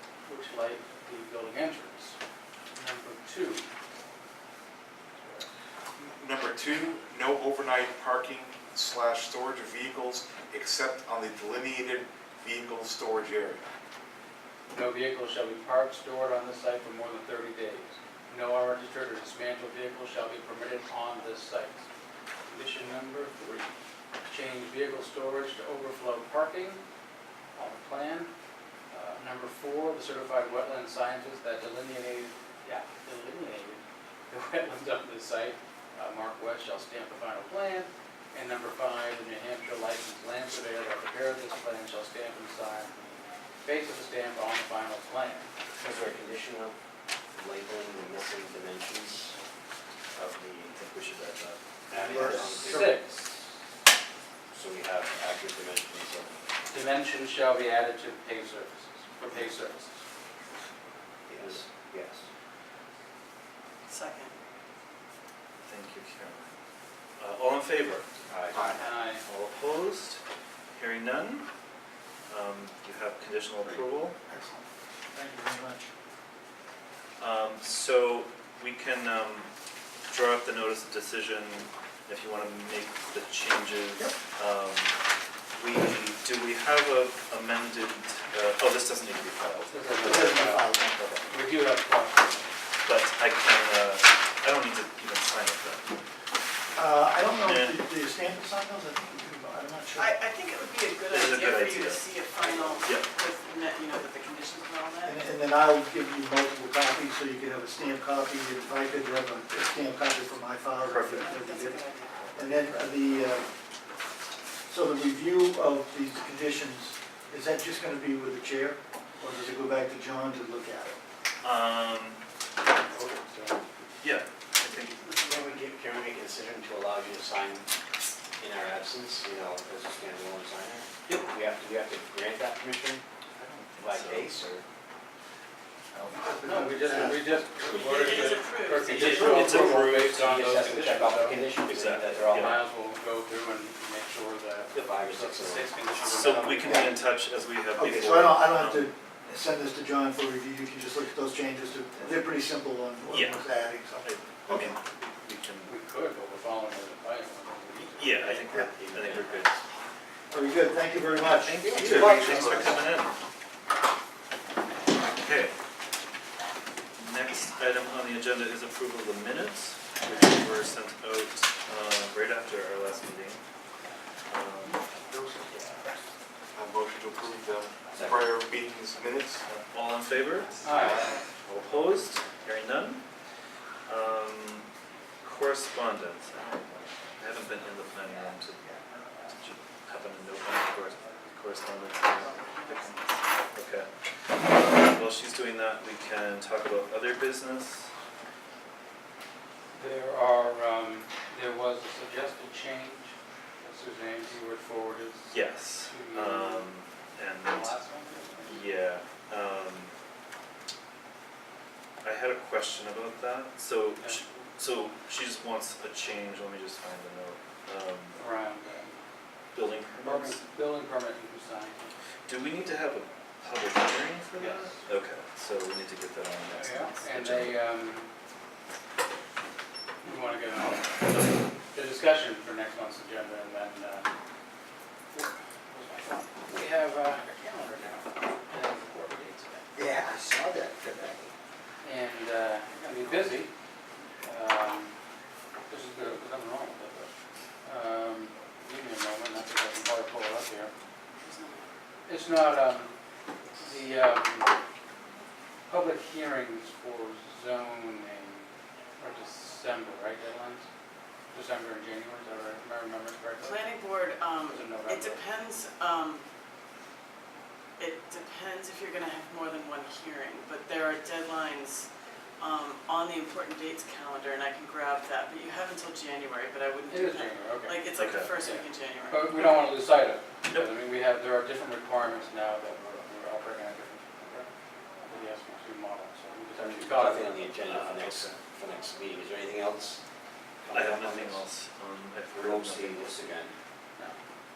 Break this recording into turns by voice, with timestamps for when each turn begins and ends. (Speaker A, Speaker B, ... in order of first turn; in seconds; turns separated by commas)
Speaker A: 0.2-2.2, Speaker A: 2.7-3.6, Speaker B: 6.0-13.6, Speaker A: 14.7-21.9, Speaker A: 22.5-23.7, Speaker A: 24.2-26.8, Speaker A: 27.5-28.3, Speaker A: 28.9-43.1, Speaker A: 43.6-45.5, Speaker C: 45.8-46.8, Speaker C: 47.3-49.4, Speaker C: 50.1-50.8, Speaker D: 50.7-51.6, Speaker C: 51.9-53.0, Speaker A: 51.9-53.3, Speaker E: 52.0-53.0, Speaker C: 54.5-56.4, Speaker A: 56.7-60.0, Speaker C: 61.3-62.3, Speaker F: 63.9-64.3, Speaker D: 65.7-66.5, Speaker D: 67.2-70.2, Speaker C: 68.3-68.8, Speaker A: 68.8-69.2, Speaker D: 70.8-71.5, Speaker D: 72.3-74.2, Speaker E: 74.3-75.9, Speaker D: 77.2-79.5, Speaker D: 80.1-84.9, Speaker D: 85.5-90.1, Speaker A: 89.7-90.7, Speaker E: 90.0-91.0, Speaker D: 91.0-91.2, Speaker A: 91.3-92.4, Speaker D: 92.8-95.9, Speaker E: 96.7-100.1, Speaker D: 97.4-97.8, Speaker F: 99.9-105.2, Speaker D: 101.1-102.0, Speaker D: 102.8-103.1, Speaker E: 105.0-113.5, Speaker D: 110.8-111.3, Speaker F: 111.2-112.8, Speaker E: 114.7-121.0, Speaker D: 121.4-122.2, Speaker A: 122.9-123.6, Speaker D: 124.0-125.0, Speaker C: 125.1-127.7, Speaker C: 128.4-133.0, Speaker D: 133.4-134.4, Speaker C: 133.8-134.6, Speaker E: 135.9-138.1, Speaker A: 136.4-141.5, Speaker F: 137.7-139.4, Speaker D: 138.9-140.5, Speaker C: 139.3-142.6, Speaker D: 141.7-142.6, Speaker A: 142.2-146.9, Speaker C: 144.8-145.8, Speaker D: 146.0-148.9, Speaker E: 146.5-147.0, Speaker E: 147.7-154.8, Speaker D: 153.1-153.4, Speaker D: 154.0-155.7, Speaker A: 155.6-158.4, Speaker D: 157.9-159.5, Speaker C: 158.3-159.5, Speaker E: 160.3-162.8, Speaker D: 161.2-163.2, Speaker B: 161.9-162.6, Speaker D: 165.1-165.5, Speaker D: 167.0-173.4, Speaker D: 174.3-174.9, Speaker B: 175.1-175.8, Speaker B: 176.5-179.4, Speaker C: 177.9-178.3, Speaker D: 179.4-183.0, Speaker A: 180.6-181.1, Speaker B: 180.8-181.3, Speaker D: 183.8-184.7, Speaker D: 185.2-188.7, Speaker D: 189.3-197.9, Speaker A: 199.7-206.7, Speaker D: 205.3-207.8, Speaker A: 207.4-208.6, Speaker D: 208.4-209.9, Speaker D: 212.0-218.2, Speaker A: 218.2-219.0, Speaker D: 219.5-220.4, Speaker A: 220.0-221.9, Speaker D: 222.3-227.6, Speaker A: 224.3-224.7, Speaker A: 226.5-228.1, Speaker A: 230.0-234.1, Speaker A: 235.1-239.8, Speaker A: 241.8-243.5, Speaker A: 244.2-244.9, Speaker A: 245.7-247.1, Speaker A: 247.6-250.7, Speaker F: 251.2-251.7, Speaker A: 252.1-252.9, Speaker A: 253.6-254.5, Speaker A: 255.7-260.6, Speaker A: 261.3-263.7, Speaker F: 263.4-266.2, Speaker A: 264.5-265.2, Speaker F: 267.8-271.9, Speaker F: 272.4-279.6, Speaker A: 276.9-277.8, Speaker D: 277.9-278.3, Speaker A: 278.4-284.5, Speaker A: 285.0-287.8, Speaker C: 286.6-290.0, Speaker D: 287.7-288.3, Speaker C: 290.6-291.4, Speaker D: 290.7-293.2, Speaker C: 292.3-293.5